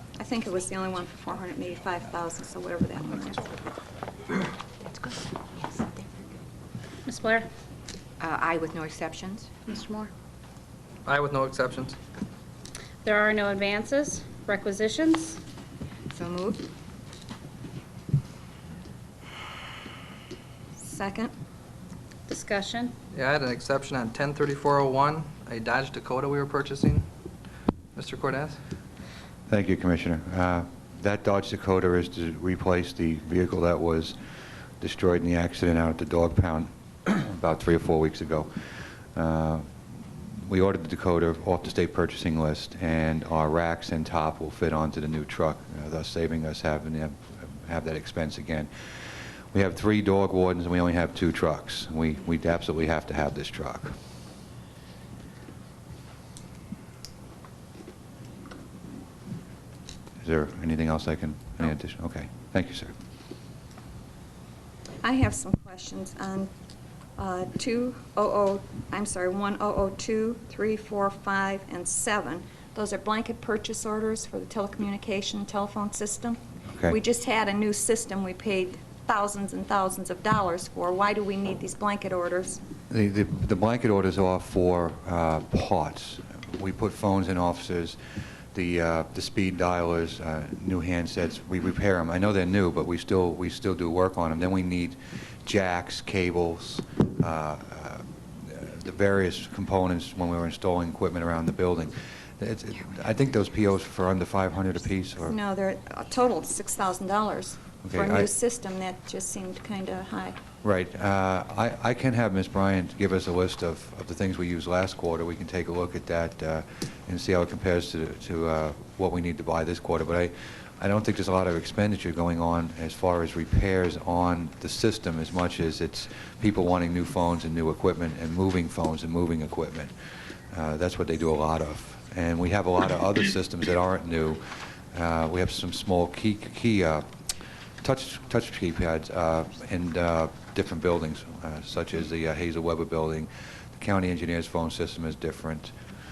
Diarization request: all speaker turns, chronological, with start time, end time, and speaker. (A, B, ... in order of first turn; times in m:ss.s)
0:00.2-0:03.5 A
0:04.8-0:06.4 B
0:07.0-0:07.5 C
0:08.2-0:09.6 B
0:09.6-0:10.1 C
0:11.1-0:11.9 D
0:13.0-0:15.4 C
0:16.1-0:16.7 B
0:20.8-0:21.3 A
0:22.3-0:22.9 C
0:23.1-0:27.0 D
0:28.0-0:28.6 D
0:29.5-0:34.2 E
0:34.8-0:38.5 E
0:39.1-0:39.7 E
0:40.4-0:48.7 E
0:49.5-0:53.9 E
1:00.2-1:02.9 E
1:05.0-1:06.5 A
1:07.2-1:22.6 A
1:22.9-1:28.0 E
1:28.5-1:45.4 E
1:45.2-1:50.4 A
1:47.8-1:48.3 E
1:50.6-2:09.9 E
2:10.5-2:17.0 E
2:17.8-2:25.7 E